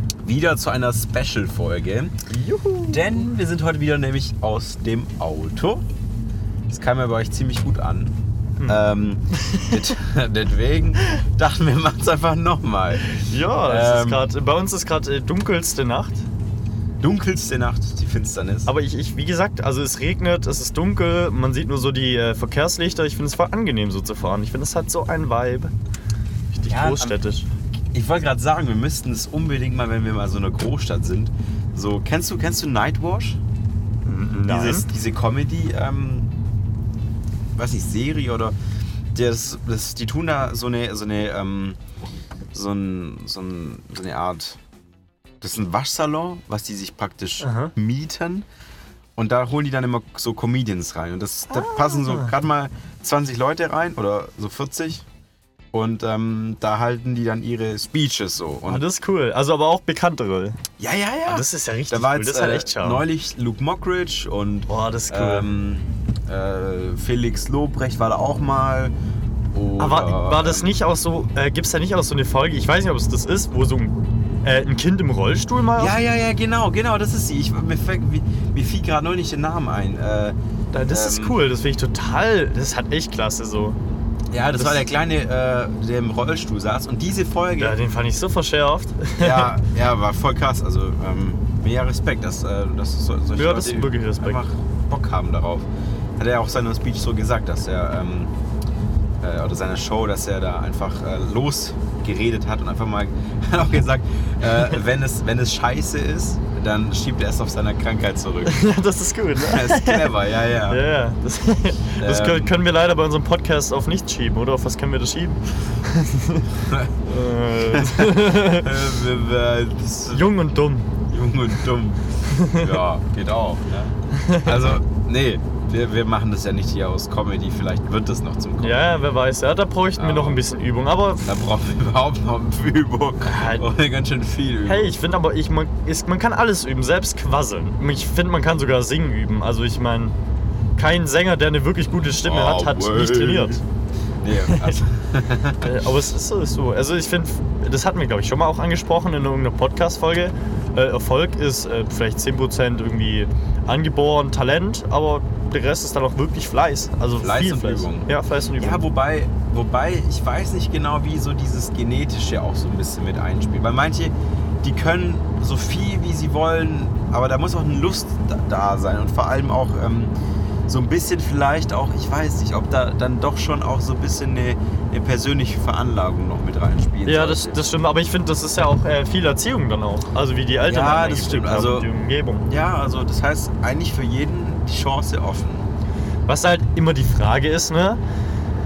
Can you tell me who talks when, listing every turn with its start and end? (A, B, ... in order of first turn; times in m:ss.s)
0:00.2-0:02.1 A
0:02.3-0:03.3 B
0:02.9-0:05.8 A
0:06.7-0:13.1 A
0:09.4-0:09.9 B
0:13.1-0:16.2 B
0:13.6-0:14.2 A
0:17.0-0:18.7 A
0:18.7-0:25.7 B
0:26.5-0:27.5 B
0:26.7-0:27.2 A
0:27.9-0:33.4 A
0:34.0-0:34.8 B
0:34.4-0:36.3 A
0:37.6-0:38.5 A
0:39.1-0:41.8 A
0:42.5-0:44.6 A
0:45.4-0:48.4 A
0:47.4-0:47.7 B
0:49.2-0:55.0 A
0:51.5-0:52.3 B
0:55.7-0:58.8 A
0:58.6-1:00.6 B
1:00.8-1:08.9 A
1:01.3-1:03.0 B
1:04.7-1:05.5 B
1:09.5-1:10.8 A
1:09.8-1:16.0 B
1:15.8-1:20.3 A
1:20.7-1:23.8 B
1:20.9-1:21.4 A
1:24.3-1:27.8 A
1:24.6-1:24.8 B
1:27.6-1:29.5 B
1:29.2-1:35.7 A
1:33.4-1:34.4 B
1:36.2-1:38.3 A
1:39.2-1:48.6 A
1:48.4-1:50.1 B
1:49.4-1:50.8 A
1:50.7-1:58.7 B
1:52.0-1:52.6 A
1:56.6-1:56.9 A
1:57.7-2:00.2 A
2:00.1-2:00.9 B
2:01.1-2:09.0 A
2:02.3-2:02.7 B
2:04.2-2:04.6 B
2:08.6-2:11.4 B
2:10.0-2:10.4 A
2:11.2-2:15.0 A
2:13.3-2:13.7 B
2:14.6-2:20.1 B
2:20.8-2:23.6 B
2:22.0-2:23.6 A
2:24.2-2:25.8 A
2:24.3-2:24.7 B
2:25.6-2:38.8 B
2:37.2-2:50.1 A
2:50.7-2:57.6 A
2:57.0-3:02.4 B
3:00.6-3:01.9 A
3:02.4-3:05.7 A
3:06.3-3:08.0 B